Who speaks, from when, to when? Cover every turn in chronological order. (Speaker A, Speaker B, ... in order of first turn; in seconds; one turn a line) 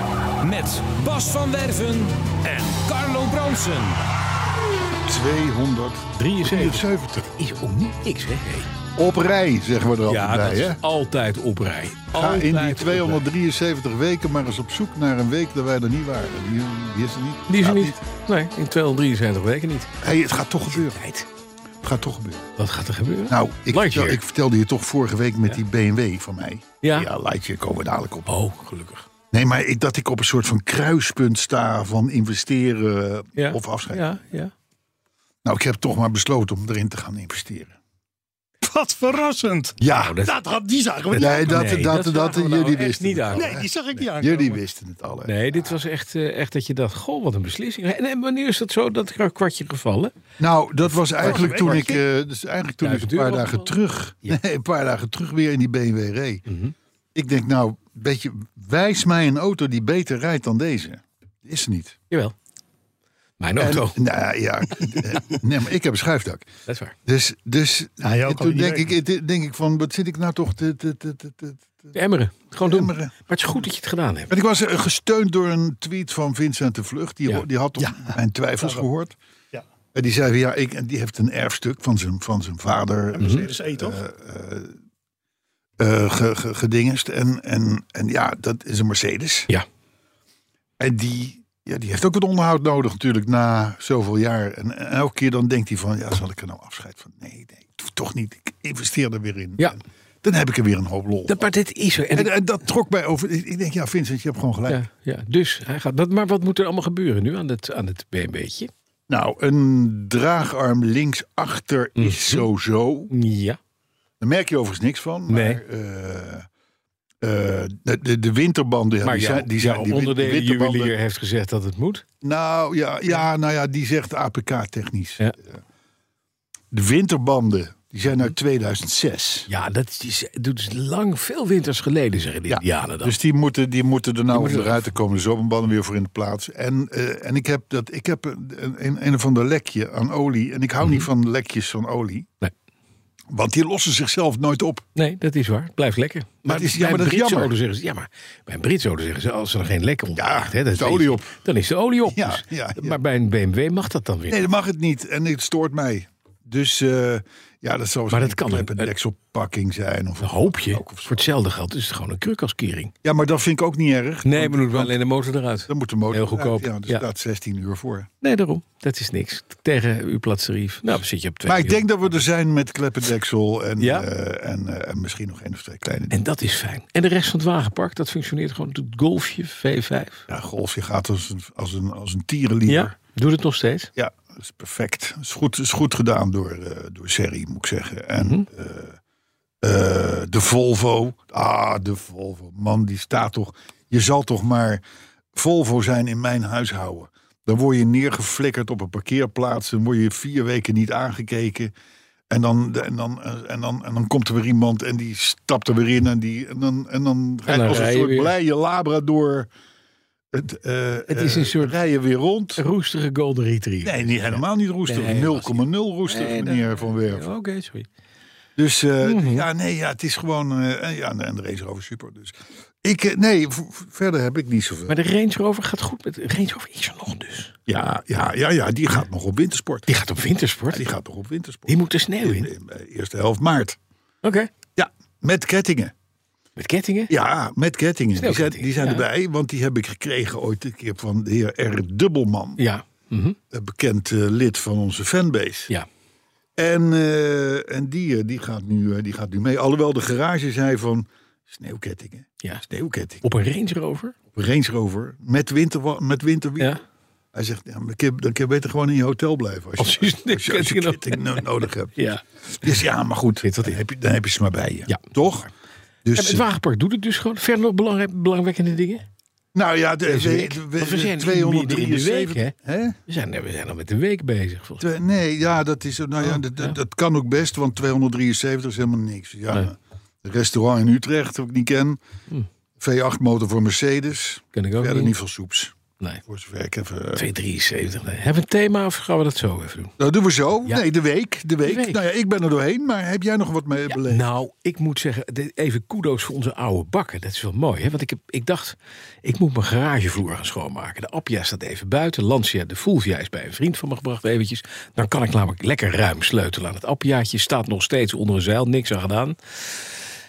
Speaker A: 0.4-4.0
Speaker B: 5.0-7.3
Speaker C: 6.1-8.7
Speaker B: 9.0-10.8
Speaker C: 10.1-13.2
Speaker B: 12.1-18.0
Speaker C: 17.5-19.9
Speaker B: 20.0-21.0
Speaker C: 20.7-21.3
Speaker B: 21.8-22.5
Speaker C: 22.6-24.2
Speaker B: 23.3-28.3
Speaker C: 26.8-27.1
Speaker C: 28.3-29.1
Speaker B: 29.3-34.1
Speaker C: 33.4-34.5
Speaker B: 35.5-37.8
Speaker D: 38.6-44.6
Speaker B: 39.8-40.2
Speaker C: 39.9-40.4
Speaker C: 41.1-43.6
Speaker B: 41.1-45.6
Speaker C: 45.2-50.1
Speaker B: 50.4-56.4
Speaker D: 51.2-52.0
Speaker C: 51.2-52.0
Speaker C: 52.8-53.7
Speaker C: 56.5-56.7
Speaker B: 57.1-62.0
Speaker C: 63.4-64.0
Speaker B: 63.6-66.5
Speaker C: 66.7-67.0
Speaker B: 67.1-71.9
Speaker D: 68.0-69.0
Speaker C: 71.9-74.3
Speaker B: 72.6-73.1
Speaker B: 74.3-79.2
Speaker D: 77.8-78.1
Speaker B: 79.9-84.8
Speaker D: 83.2-84.0
Speaker C: 83.2-83.5
Speaker B: 85.8-89.5
Speaker B: 90.8-101.5
Speaker C: 101.3-102.3
Speaker B: 102.1-104.8
Speaker C: 104.7-108.7
Speaker B: 109.1-113.1
Speaker C: 112.0-112.5
Speaker C: 113.1-113.6
Speaker B: 114.2-116.5
Speaker C: 115.3-115.6
Speaker B: 117.2-121.0
Speaker C: 119.0-122.0
Speaker B: 122.2-125.6
Speaker B: 126.7-129.5
Speaker C: 129.5-133.2
Speaker B: 132.5-142.3
Speaker C: 134.3-134.8
Speaker B: 143.3-144.8
Speaker C: 145.0-154.4
Speaker B: 146.4-147.5
Speaker B: 150.2-151.3
Speaker B: 152.1-153.0
Speaker B: 154.3-161.3
Speaker C: 158.1-158.9
Speaker C: 160.2-162.9
Speaker B: 163.0-164.9
Speaker C: 164.2-167.1
Speaker B: 165.7-168.1
Speaker C: 168.2-172.1
Speaker B: 171.5-176.2
Speaker C: 173.8-174.1
Speaker C: 176.1-180.3
Speaker B: 180.3-182.9
Speaker C: 182.7-183.9
Speaker B: 184.0-189.0
Speaker C: 188.2-188.5
Speaker B: 189.6-194.8
Speaker B: 195.3-201.7
Speaker B: 202.3-209.5
Speaker C: 207.5-208.3
Speaker B: 210.3-212.7
Speaker C: 211.1-211.8
Speaker C: 212.6-217.9
Speaker B: 213.8-217.3
Speaker B: 218.6-225.0
Speaker C: 219.0-219.5
Speaker C: 224.9-227.7
Speaker B: 227.7-230.0
Speaker C: 229.9-230.9
Speaker B: 230.7-233.8
Speaker C: 231.7-232.5
Speaker C: 234.2-234.5
Speaker B: 234.8-235.9
Speaker C: 236.6-237.1
Speaker B: 237.1-242.6
Speaker C: 238.2-239.1
Speaker C: 242.6-243.4
Speaker B: 243.5-245.7
Speaker B: 246.6-253.2
Speaker C: 253.2-254.2
Speaker B: 254.3-256.7
Speaker B: 257.3-265.5
Speaker C: 259.8-262.8
Speaker C: 263.4-263.8
Speaker B: 266.0-266.5
Speaker C: 266.1-269.0
Speaker B: 269.5-273.0
Speaker C: 270.1-272.5
Speaker C: 273.1-274.9
Speaker B: 274.8-282.0
Speaker C: 276.2-276.8
Speaker B: 282.8-285.7
Speaker C: 284.5-285.1
Speaker B: 286.3-287.2
Speaker C: 287.2-289.9
Speaker B: 290.0-294.3
Speaker C: 291.6-292.0
Speaker C: 293.9-309.8